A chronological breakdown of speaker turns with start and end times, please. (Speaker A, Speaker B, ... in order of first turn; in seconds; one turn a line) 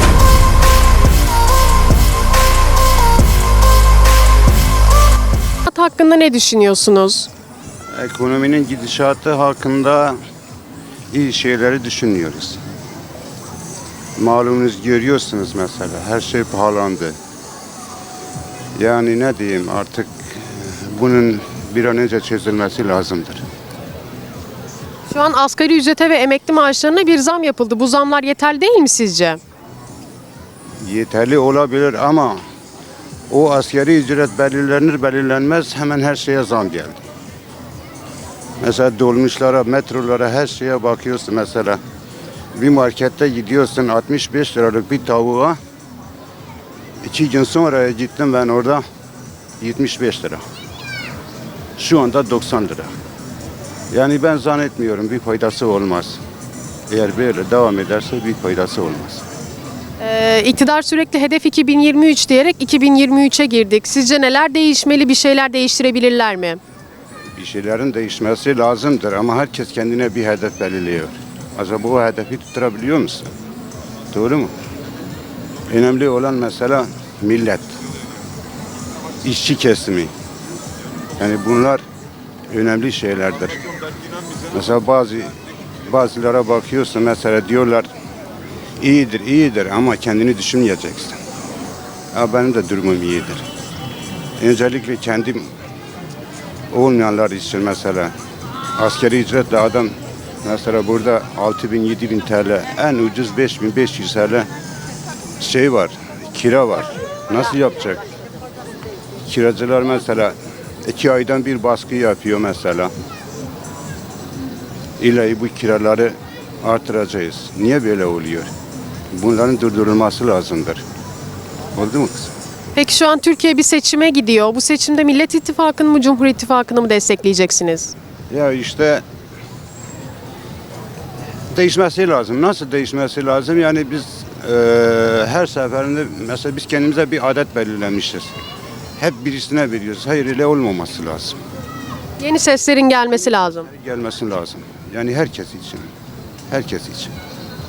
Speaker A: 5.7-7.3
Speaker B: 7.9-10.2
Speaker B: 11.1-12.6
Speaker B: 14.2-17.2
Speaker B: 18.8-23.4
Speaker A: 25.1-29.4
Speaker B: 30.8-32.4
Speaker B: 33.3-37.0
Speaker B: 38.6-41.8
Speaker B: 42.5-45.6
Speaker B: 47.0-48.8
Speaker B: 49.6-50.4
Speaker B: 51.8-52.9
Speaker B: 53.9-56.2
Speaker B: 56.9-59.2
Speaker A: 60.0-66.6
Speaker B: 67.3-73.3
Speaker B: 74.1-74.5
Speaker B: 75.7-77.8
Speaker B: 79.2-80.1
Speaker B: 81.2-81.8
Speaker B: 82.5-83.7
Speaker B: 84.5-85.4
Speaker B: 85.9-87.9
Speaker B: 88.8-91.2
Speaker B: 92.1-93.5
Speaker B: 94.4-95.5
Speaker B: 96.7-98.1
Speaker B: 98.8-104.5
Speaker B: 105.4-108.0
Speaker B: 109.3-112.9
Speaker B: 115.0-118.5
Speaker B: 119.1-120.8
Speaker B: 121.8-122.3
Speaker A: 122.8-127.9
Speaker B: 128.3-129.0
Speaker B: 131.5-138.3
Speaker B: 139.0-141.4
Speaker A: 142.2-143.7
Speaker B: 143.7-145.9
Speaker B: 146.5-147.1